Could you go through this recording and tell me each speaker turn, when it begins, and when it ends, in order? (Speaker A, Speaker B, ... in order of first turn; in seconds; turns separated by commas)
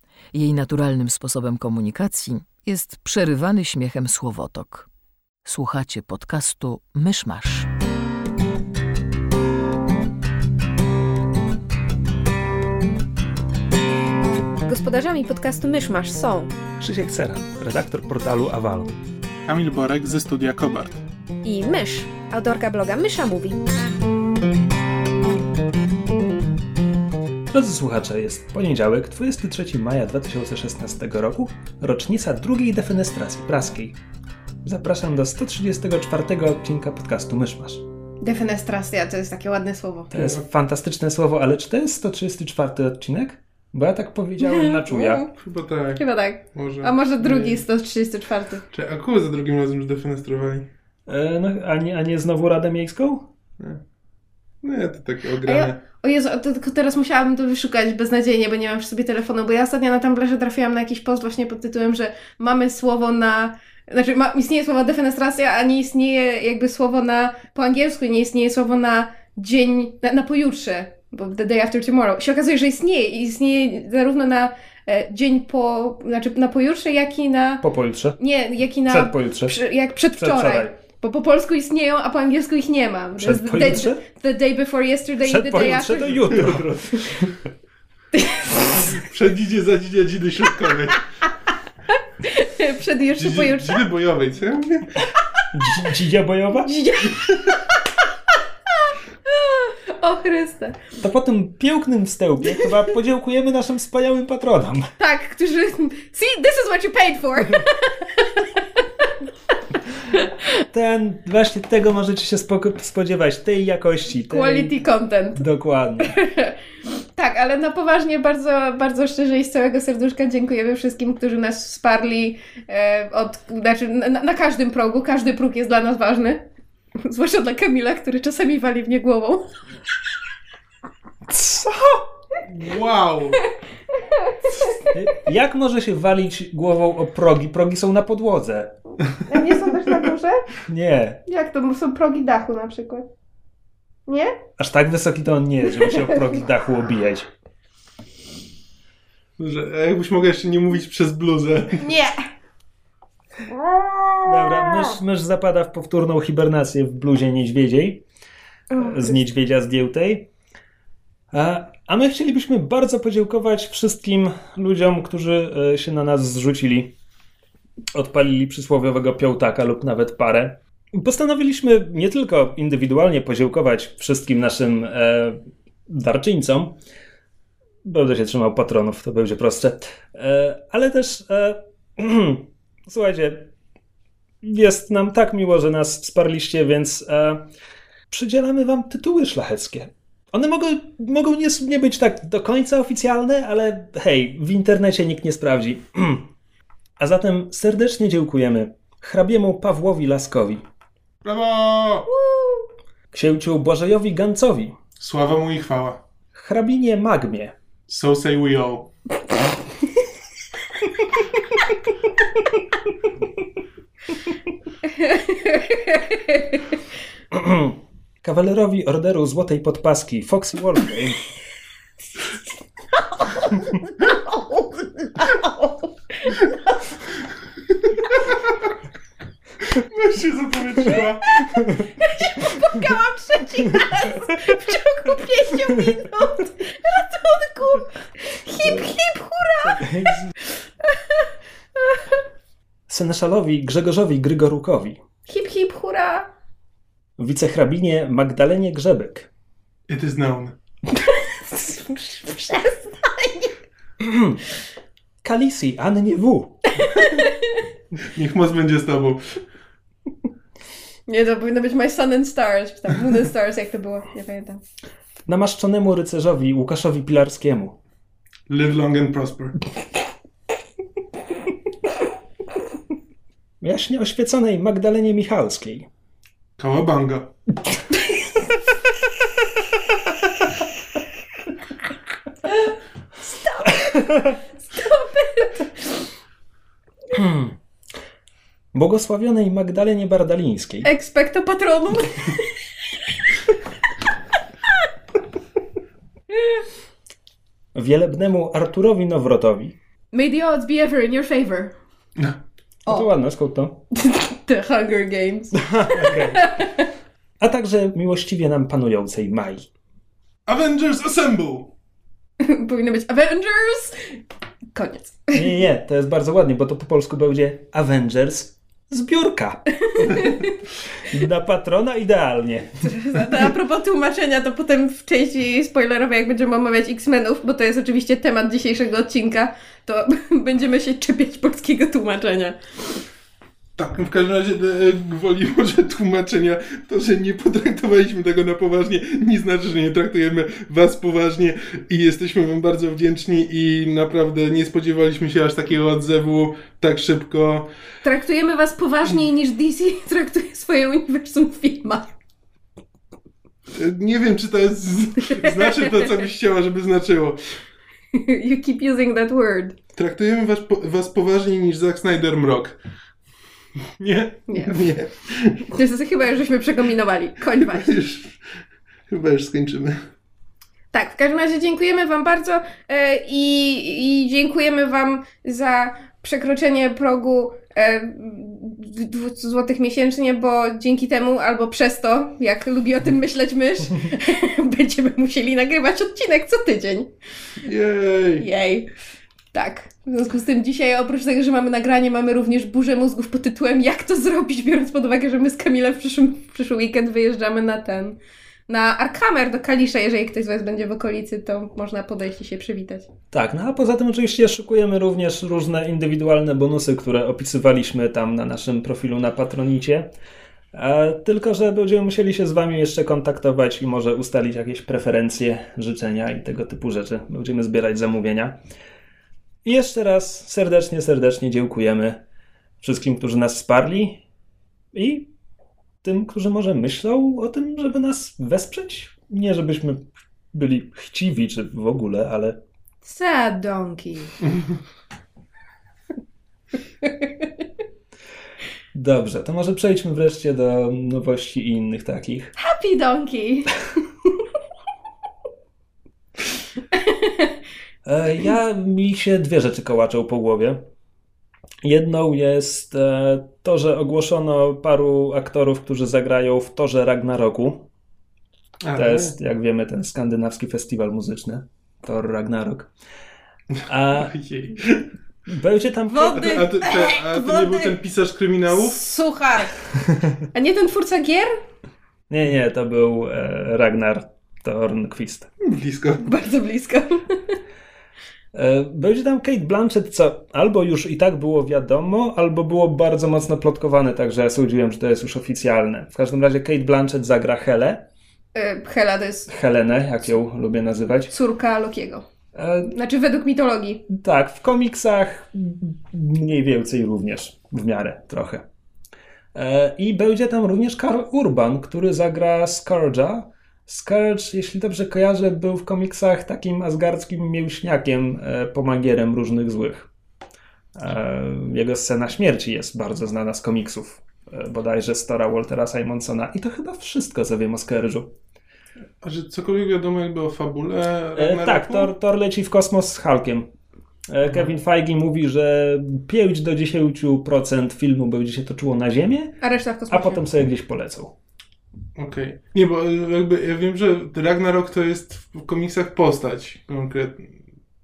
Speaker A: 0.3-4.9, Speaker A: 5.5-7.7, Speaker B: 14.6-16.5, Speaker C: 16.8-18.9, Speaker D: 19.4-21.0, Speaker B: 21.4-23.7, Speaker C: 27.5-34.0, Speaker C: 34.6-37.8, Speaker B: 38.2-40.3, Speaker C: 40.1-45.2, Speaker B: 44.4-45.3, Speaker D: 45.3-47.6, Speaker B: 46.0-48.6, Speaker D: 48.7-50.7, Speaker C: 51.1-53.3, Speaker D: 54.6-55.8, Speaker B: 55.5-77.6, Speaker C: 77.6-78.2, Speaker B: 78.2-86.4, Speaker C: 78.9-79.6, Speaker C: 80.2-80.7, Speaker C: 83.2-84.0, Speaker C: 85.2-87.2, Speaker D: 86.3-86.6, Speaker B: 88.1-89.0, Speaker D: 88.8-91.1, Speaker B: 91.9-93.8, Speaker D: 93.2-95.0, Speaker C: 95.5-96.7, Speaker B: 96.6-97.8, Speaker B: 98.8-100.8, Speaker C: 101.0-104.9, Speaker B: 105.0-109.1, Speaker C: 110.7-114.7, Speaker B: 114.3-115.4, Speaker C: 115.4-116.2, Speaker B: 116.0-116.6, Speaker B: 117.2-129.5, Speaker C: 131.3-132.1, Speaker D: 132.5-133.4, Speaker B: 133.9-135.0, Speaker C: 134.9-138.8, Speaker B: 139.0-140.5, Speaker C: 140.7-141.2, Speaker B: 141.3-143.1, Speaker B: 144.1-144.4, Speaker C: 144.6-147.3, Speaker D: 149.4-151.8, Speaker B: 151.8-152.2, Speaker B: 154.0-154.8, Speaker C: 154.3-158.0, Speaker B: 158.7-159.1, Speaker C: 158.8-160.3, Speaker C: 161.3-166.9, Speaker C: 167.9-176.8, Speaker C: 177.8-183.5, Speaker C: 184.4-187.5, Speaker C: 188.1-196.3, Speaker C: 197.0-200.6, Speaker D: 201.2-202.1, Speaker B: 202.3-202.6, Speaker C: 203.1-204.8, Speaker D: 205.0-206.0, Speaker C: 206.3-207.6, Speaker D: 207.9-208.9, Speaker B: 214.9-216.6, Speaker C: 217.3-221.2, Speaker B: 223.2-226.8, Speaker D: 229.7-231.7, Speaker B: 231.3-240.2, Speaker C: 239.6-240.3, Speaker B: 240.9-241.2, Speaker C: 242.9-245.0, Speaker B: 245.3-246.3, Speaker C: 247.2-249.3, Speaker D: 249.9-250.6, Speaker B: 251.4-253.5, Speaker C: 254.0-254.4, Speaker C: 255.2-256.8, Speaker B: 256.8-257.3, Speaker D: 258.0-259.4, Speaker B: 261.1-264.6, Speaker C: 265.3-267.8, Speaker D: 268.5-269.6, Speaker C: 273.6-275.9, Speaker D: 276.6-277.3, Speaker B: 283.3-283.8, Speaker B: 284.7-285.8, Speaker C: 287.1-287.6, Speaker C: 288.7-290.9, Speaker B: 290.8-292.5, Speaker C: 297.7-299.8, Speaker B: 300.1-301.8, Speaker C: 302.9-303.8, Speaker B: 303.9-306.9, Speaker C: 305.5-306.5, Speaker C: 307.4-309.7, Speaker D: 310.5-311.7, Speaker B: 312.4-314.2, Speaker B: 314.7-315.5, Speaker C: 315.3-320.3, Speaker B: 319.9-320.5, Speaker C: 321.0-322.9, Speaker B: 322.8-332.6, Speaker D: 333.8-347.7, Speaker B: 348.0-352.1, Speaker D: 353.7-357.4, Speaker B: 355.3-355.9, Speaker B: 358.1-359.8, Speaker D: 360.0-362.8, Speaker D: 364.0-365.6, Speaker B: 364.5-364.9, Speaker B: 365.6-368.0, Speaker D: 367.7-368.3, Speaker D: 369.1-370.0, Speaker B: 370.9-387.1, Speaker D: 387.6-388.5, Speaker B: 388.4-388.9, Speaker B: 389.5-403.1, Speaker C: 403.3-410.1, Speaker C: 410.7-418.6, Speaker C: 419.6-422.2, Speaker C: 422.8-424.2, Speaker C: 424.9-425.3, Speaker C: 426.0-432.6, Speaker B: 433.0-434.4, Speaker C: 438.9-442.5, Speaker B: 442.6-444.3, Speaker B: 446.9-447.6, Speaker C: 448.1-450.9, Speaker C: 451.8-457.9, Speaker D: 458.8-459.3, Speaker C: 458.9-462.9, Speaker C: 463.9-464.3, Speaker D: 464.2-465.1, Speaker C: 465.5-466.5, Speaker B: 466.1-468.0, Speaker D: 466.3-469.0, Speaker B: 468.7-469.8, Speaker B: 470.5-471.6, Speaker C: 472.3-475.5, Speaker D: 475.6-476.3, Speaker B: 476.2-477.6, Speaker C: 478.5-488.1, Speaker B: 488.5-489.5, Speaker C: 489.5-491.3, Speaker B: 491.3-492.2, Speaker C: 492.6-492.9, Speaker B: 492.9-494.0, Speaker C: 494.1-498.6, Speaker C: 499.6-510.1, Speaker C: 511.0-518.3, Speaker D: 519.2-522.1, Speaker C: 521.4-523.7, Speaker C: 524.3-529.6, Speaker B: 529.6-530.5, Speaker C: 530.1-531.3, Speaker D: 532.2-537.5